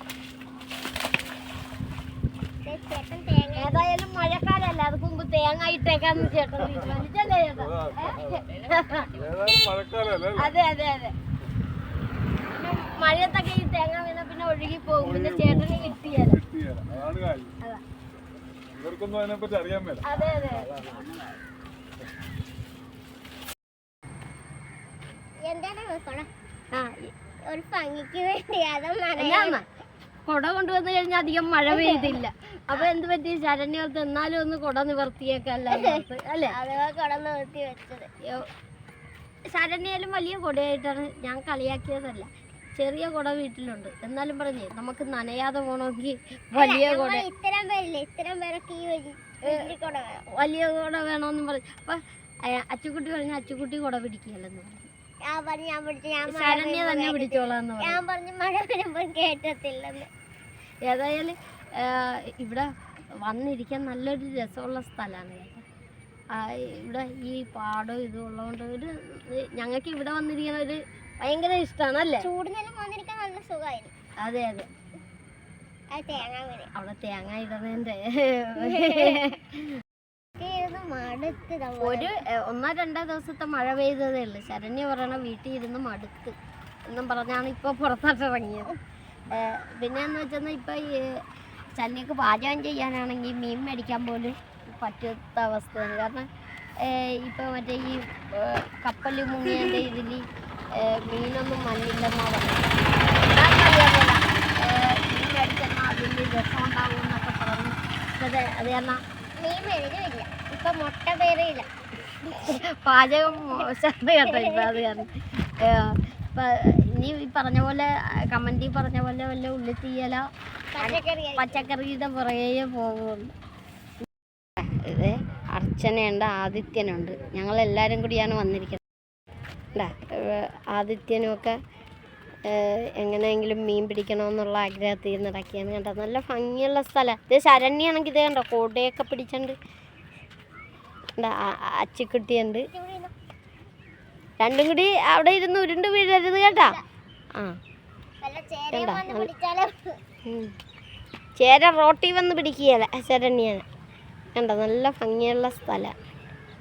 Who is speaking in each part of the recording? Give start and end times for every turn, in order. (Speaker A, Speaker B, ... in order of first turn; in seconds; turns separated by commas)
Speaker A: 2.6-3.9, Speaker B: 3.5-9.1, Speaker C: 9.2-10.4, Speaker B: 10.3-11.1, Speaker B: 12.5-16.4, Speaker C: 16.5-17.5, Speaker C: 18.8-20.0, Speaker B: 20.0-20.8, Speaker A: 25.4-26.3, Speaker B: 26.7-27.1, Speaker A: 27.5-29.6, Speaker B: 29.2-29.6, Speaker B: 30.3-36.5, Speaker A: 31.7-32.9, Speaker A: 35.7-38.1, Speaker B: 39.5-47.3, Speaker A: 46.5-50.2, Speaker B: 49.4-49.7, Speaker B: 50.3-52.0, Speaker B: 52.5-54.9, Speaker A: 55.3-60.1, Speaker B: 56.3-58.0, Speaker B: 60.9-62.7, Speaker B: 63.2-65.6, Speaker B: 66.3-72.3, Speaker A: 72.2-73.9, Speaker B: 74.2-74.7, Speaker A: 75.9-76.7, Speaker B: 76.8-79.5, Speaker A: 78.6-79.3, Speaker A: 80.4-82.1, Speaker B: 81.8-86.3, Speaker B: 86.9-88.8, Speaker B: 89.3-90.9, Speaker B: 91.8-96.3, Speaker B: 96.8-100.2, Speaker B: 100.8-109.0, Speaker A: 109.4-111.7, Speaker B: 112.3-115.1, Speaker A: 114.2-114.7, Speaker B: 115.6-120.2, Speaker A: 120.7-121.6, Speaker B: 120.8-123.3, Speaker B: 124.6-128.8, Speaker B: 129.8-131.6, Speaker B: 132.5-139.6, Speaker B: 141.2-142.7, Speaker A: 142.7-143.1, Speaker B: 144.4-146.8, Speaker A: 146.5-146.8, Speaker A: 148.2-150.0, Speaker B: 148.7-149.3, Speaker B: 150.3-150.5, Speaker B: 151.4-153.7, Speaker B: 154.3-155.9